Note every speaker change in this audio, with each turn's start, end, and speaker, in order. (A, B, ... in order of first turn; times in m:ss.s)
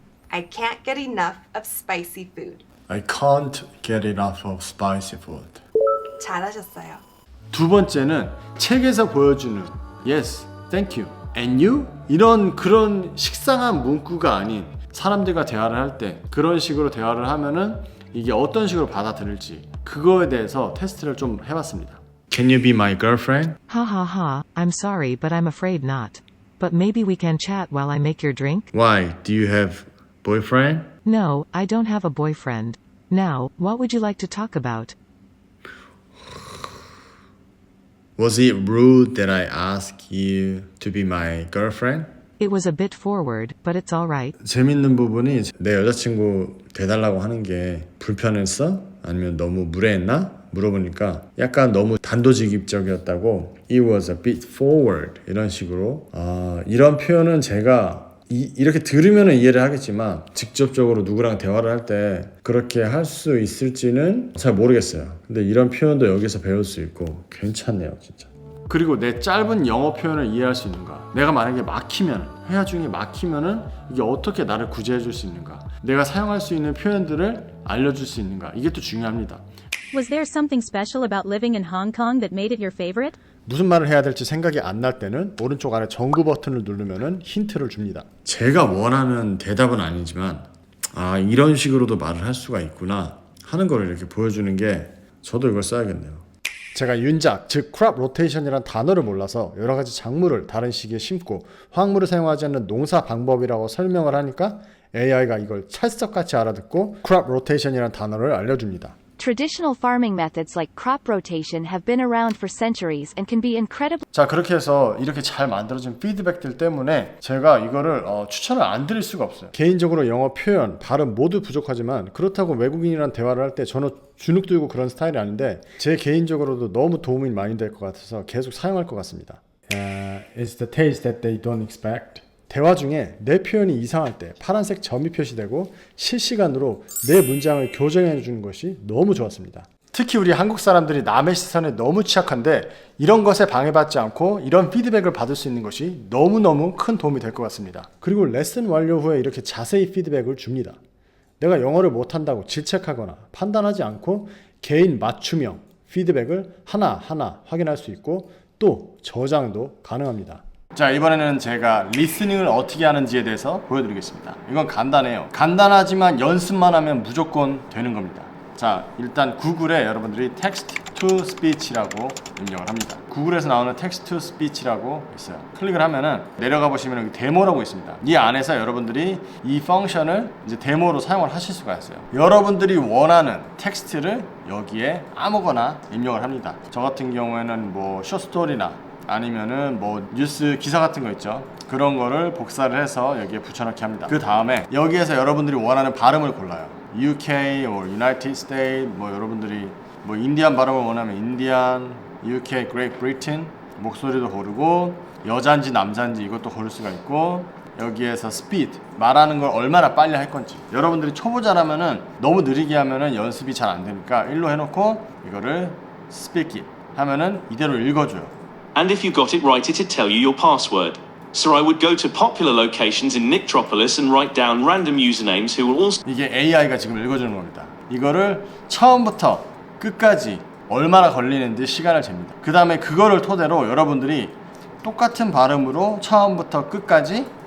0:00.3-0:02.6 A
0:02.9-0:05.6 B
0:06.2-0:07.0 A
0:07.5-0:23.6 B
0:23.7-0:28.7 C
0:28.7-0:30.9 B
0:31.0-0:35.0 C
0:38.2-0:42.1 B
0:42.4-0:44.3 C
0:44.4-1:19.4 B
1:19.9-1:23.2 D
1:23.4-1:49.0 B
1:49.2-1:54.0 E
1:54.1-2:30.8 B
2:31.4-3:38.3 B
3:38.8-3:46.0 F
3:46.1-3:57.3 B